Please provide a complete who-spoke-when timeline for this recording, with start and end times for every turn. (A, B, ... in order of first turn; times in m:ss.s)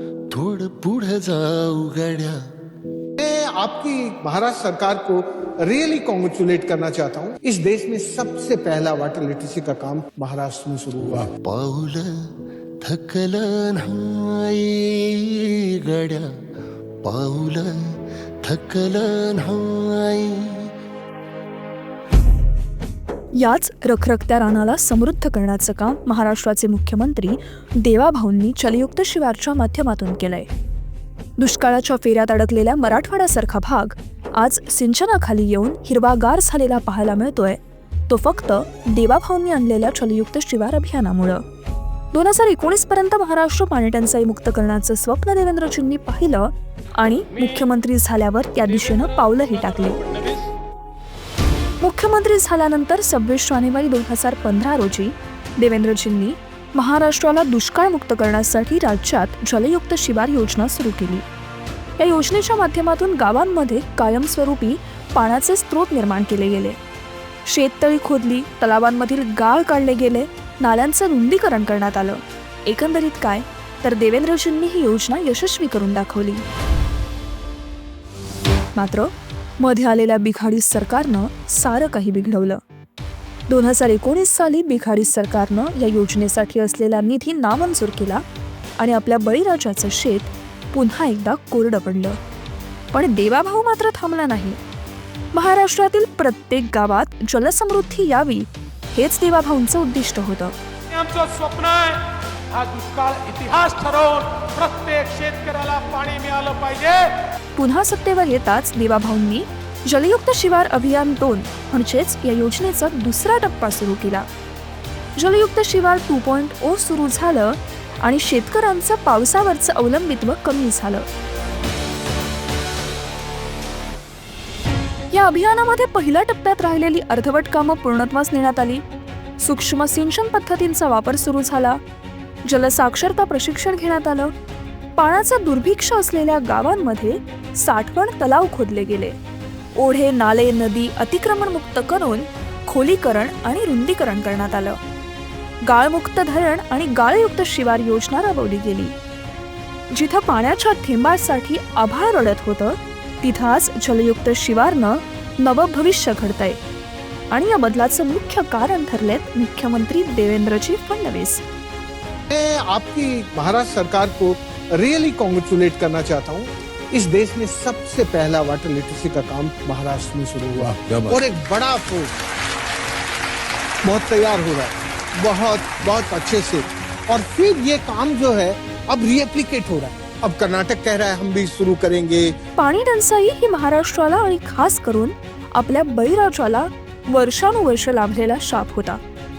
0:00.3-0:02.4 A
0:03.2-0:11.3 B
0:11.3-0:12.2 A
0:12.8-0:16.3 A
0:17.0-0:17.8 A
0:18.4-0:20.7 A
0:23.4-0:30.5 C
0:31.4-0:41.4 C
0:42.1-0:50.0 C
0:49.8-0:50.5 D
0:51.8-1:01.2 C
1:02.0-1:06.8 C
1:07.5-1:16.4 C
1:18.8-1:22.6 C
1:23.5-1:28.2 C
1:28.8-1:32.2 C
1:32.9-1:34.6 C
1:35.3-1:40.6 C
1:40.9-1:47.2 D
1:47.6-1:54.3 C
1:55.2-2:01.1 C
2:05.1-2:08.8 C
2:09.4-2:11.8 C
2:12.5-2:14.3 C
2:15.0-2:19.2 C
2:19.8-2:24.8 C
2:25.7-2:29.0 C
2:29.9-2:36.6 C
2:37.3-2:41.4 C
2:42.3-2:52.1 B
2:53.8-3:02.4 B
3:02.6-3:09.0 C